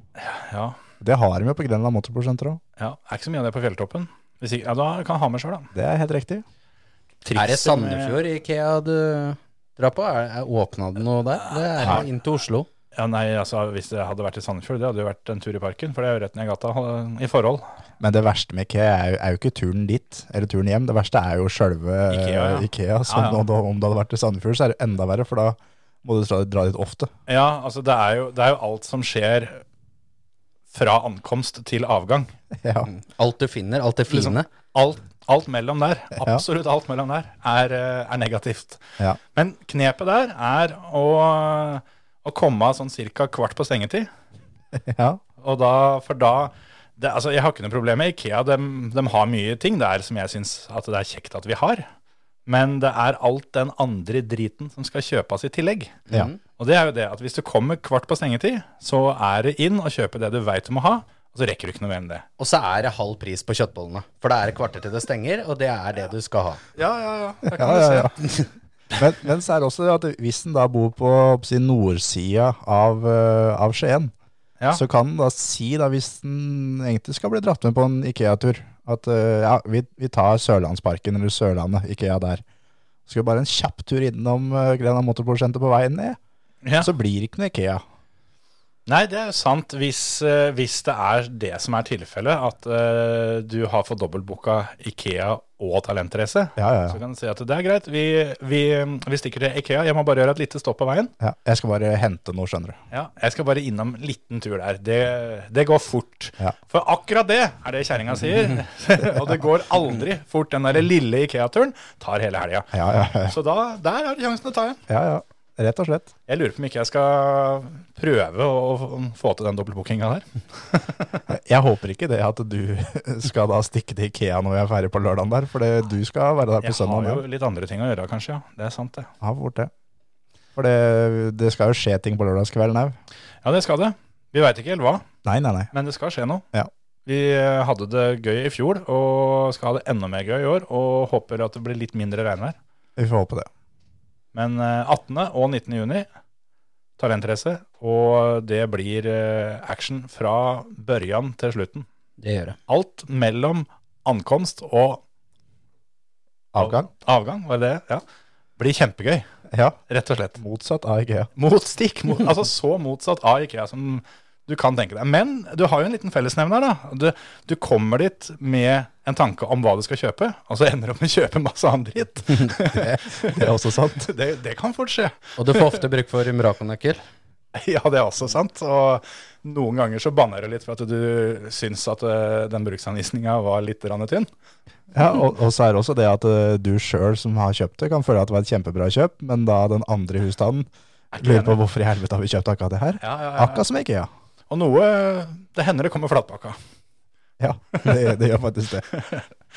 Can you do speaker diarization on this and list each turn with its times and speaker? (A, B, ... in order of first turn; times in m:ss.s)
0:00.2-0:00.8 A
0:01.0-0:02.6 B
0:02.8-0:05.7 A
0:05.7-0:06.4 B
0:07.2-0:08.2 A
0:07.3-0:12.7 C
0:11.4-0:12.0 A
0:12.9-0:17.6 A
0:18.0-0:27.1 B
0:22.1-0:23.4 A
0:27.3-0:29.6 A
0:30.7-0:32.3 A
0:32.6-0:32.9 B
0:32.9-0:34.4 C
0:34.1-0:38.8 A
0:39.3-0:44.1 A
0:44.8-0:45.2 B
0:45.4-0:51.9 A
0:52.5-0:56.0 A
0:56.1-0:56.4 C
0:56.6-1:02.2 A
1:02.4-1:06.6 C
1:06.8-1:08.1 A
1:07.5-1:08.1 B
1:09.0-1:14.1 B
1:14.7-1:22.4 B
1:23.1-1:26.2 B
1:26.6-1:26.9 A
1:26.8-1:27.8 B
1:28.9-1:41.1 A
1:36.6-1:37.0 B
1:41.2-1:42.8 B
1:42.9-1:52.7 A
1:52.7-1:53.3 B
1:53.2-1:54.8 A
1:54.9-1:56.1 B
1:56.3-2:01.2 A
2:01.3-2:07.2 B
2:06.6-2:09.1 A
2:09.2-2:09.7 B
2:10.6-2:13.0 B
2:13.4-2:15.0 A
2:15.2-2:15.7 B
2:15.7-2:16.4 A
2:17.0-2:22.6 A
2:23.0-2:23.5 B
2:24.3-2:26.0 A
2:27.0-2:31.8 A
2:32.2-2:32.6 C
2:32.7-2:35.0 A
2:36.5-2:36.9 B
2:36.6-2:38.0 A
2:38.6-2:39.2 A
2:39.5-2:39.8 B
2:39.9-2:40.4 A
2:40.4-2:41.3 B
2:41.4-2:55.8 A
2:53.2-2:54.1 B
2:55.4-2:57.0 C
2:57.5-3:04.3 A
3:04.9-3:10.7 B
3:11.1-3:11.6 A
3:11.2-3:14.1 B
3:13.0-3:13.6 A
3:14.5-3:16.6 A
3:17.4-3:18.8 B
3:18.9-3:19.3 A